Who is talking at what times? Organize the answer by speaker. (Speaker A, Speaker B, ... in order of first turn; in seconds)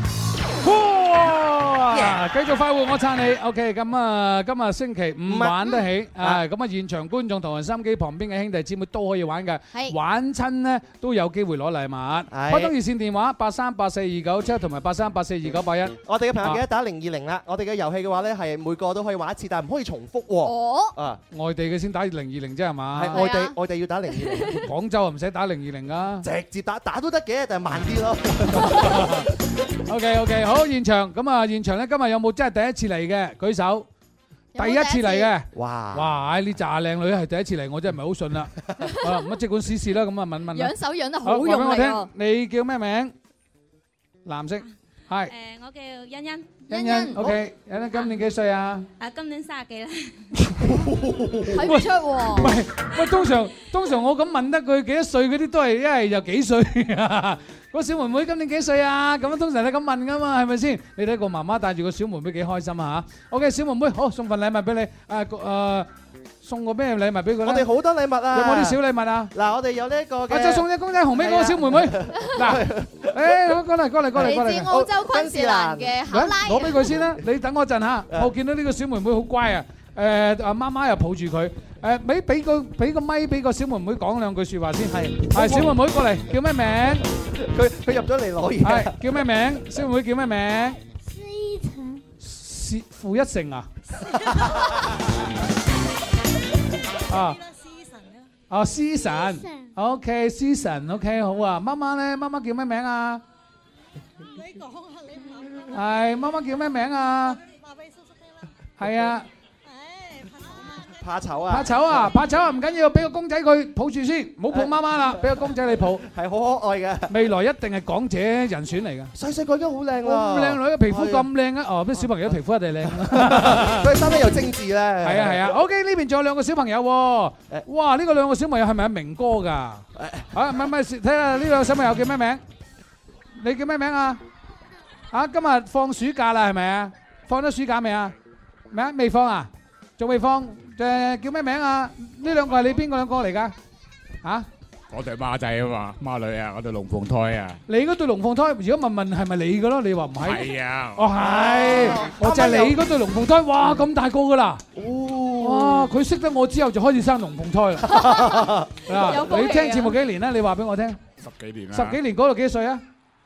Speaker A: 0.6-16.6, 21.3-23.2, 24.6-26.3, 28.6-29.3, 29.9-33.9, 34.6-40.7, 41.2-43.1, 44.2-45.3, 46.7-48.9, 51.6-65.9, 66.4-67.7, 68.3-69.3, 70.3-74.7, 76.1-87.0, 88.6-90.8, 92.2-93.7, 97.1-97.4, 98.5-103.2, 105.7-107.4, 108.8-109.3, 111.5-116.0, 117.1-119.1, 120.0-124.1, 125.0-132.4, 133.4-134.2, 135.1-138.2, 138.7-143.5, 147.7-154.6, 155.4-158.1, 158.9-161.0, 161.7-162.8
Speaker B: 1.9-2.2, 5.3-6.4, 12.3-12.7, 16.1-21.2, 22.9-24.6, 26.2-29.0, 35.5-36.1, 50.6-51.6, 67.4-68.8, 69.3-73.4, 74.2-76.0, 84.9-85.8, 87.3-89.0, 94.0-95.0, 110.9-112.1, 114.5-115.4, 116.0-117.1, 119.2-121.3, 122.0-122.3, 122.9-125.5, 130.0-130.3, 151.2-152.8, 154.8-155.9, 157.9-158.7
Speaker C: 20.4-20.9, 23.1-23.6, 24.1-24.6, 34.5-35.3, 40.5-42.1, 46.7-47.2, 51.5-52.6, 74.2-77.0, 157.9-160.0
Speaker D: 45.3-46.6, 49.0-50.3
Speaker E: 144.9-147.6, 150.2-151.1, 161.2-162.0